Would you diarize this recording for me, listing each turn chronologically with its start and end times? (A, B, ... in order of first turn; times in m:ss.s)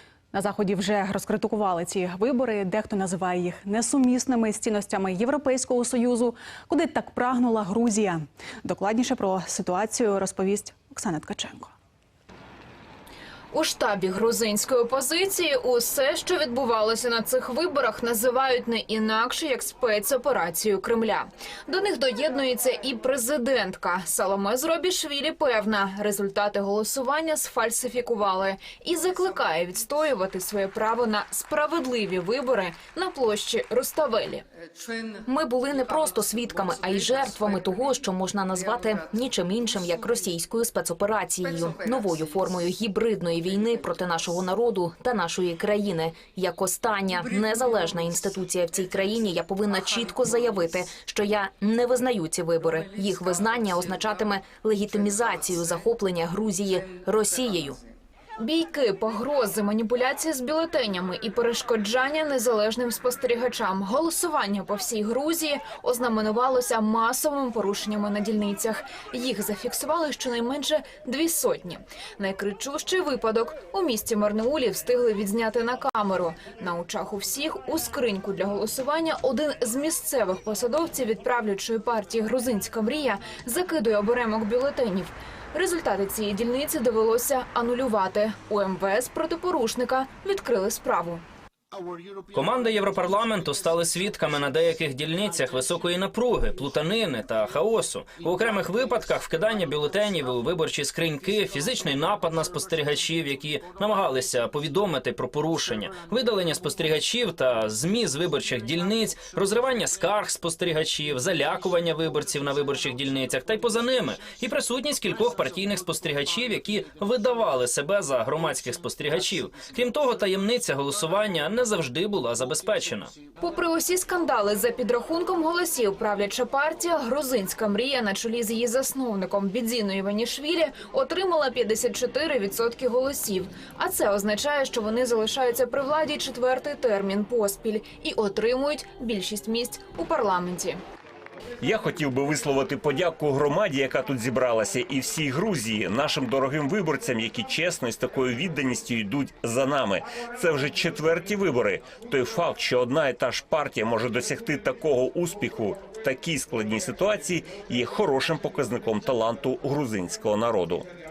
0:00.3-0:11.7 A
0:13.5-0:34.4 B
0:35.2-0:57.8 C
0:58.4-1:31.2 B
1:32.3-2:03.1 D
2:03.4-2:20.8 B
2:21.6-2:40.9 E